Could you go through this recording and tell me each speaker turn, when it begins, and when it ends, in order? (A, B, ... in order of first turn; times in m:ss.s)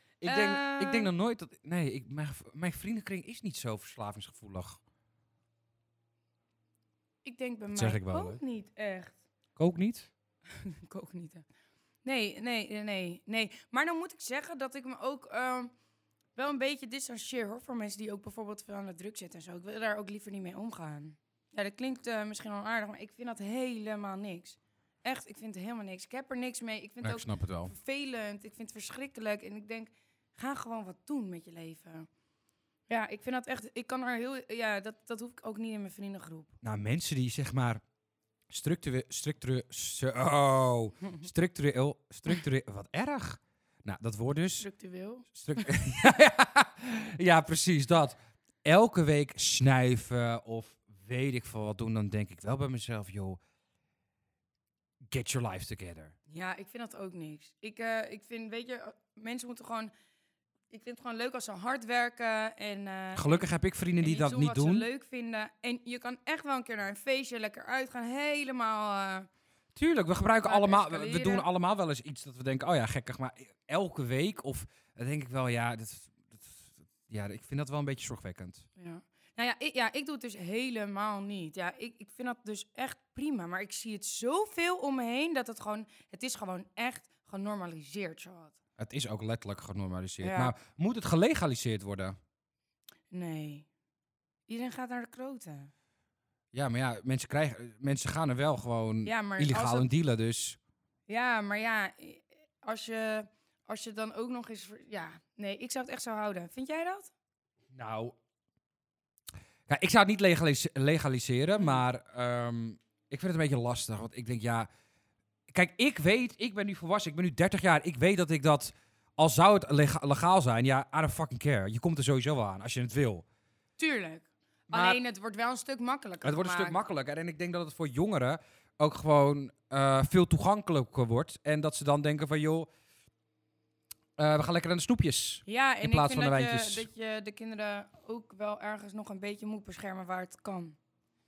0:00.2-0:04.8 A
0:00.2-0:01.1 B
0:07.2-0:09.2 B
0:07.7-0:08.4 A
0:09.6-0:10.1 A
0:10.6-0:11.4 B
0:12.0-0:15.7 B
0:16.4-0:32.1 B
0:27.0-0:27.7 A
0:32.9-0:36.5 B
0:36.6-0:37.8 A
0:38.5-0:44.7 A
0:44.6-0:45.8 B
0:45.3-0:53.4 A
0:55.1-0:56.1 A
0:56.3-0:59.9 B
1:00.7-1:03.5 B
1:03.1-1:04.9 A
1:04.0-1:09.3 B
1:09.7-1:18.6 A
1:10.4-1:11.5 B
1:18.8-1:28.6 B
1:28.8-1:32.2 A
1:30.2-1:30.5 B
1:33.1-1:33.7 B
1:34.5-1:35.7 B
1:36.5-1:40.6 A
1:39.0-1:39.9 B
1:41.1-1:47.1 B
1:47.7-1:48.1 A
1:49.7-1:54.7 A
1:55.5-2:03.2 A
2:03.8-2:06.8 B
2:04.7-2:05.0 A
2:06.2-2:12.7 A
2:14.2-2:16.9 A
2:15.4-2:20.8 B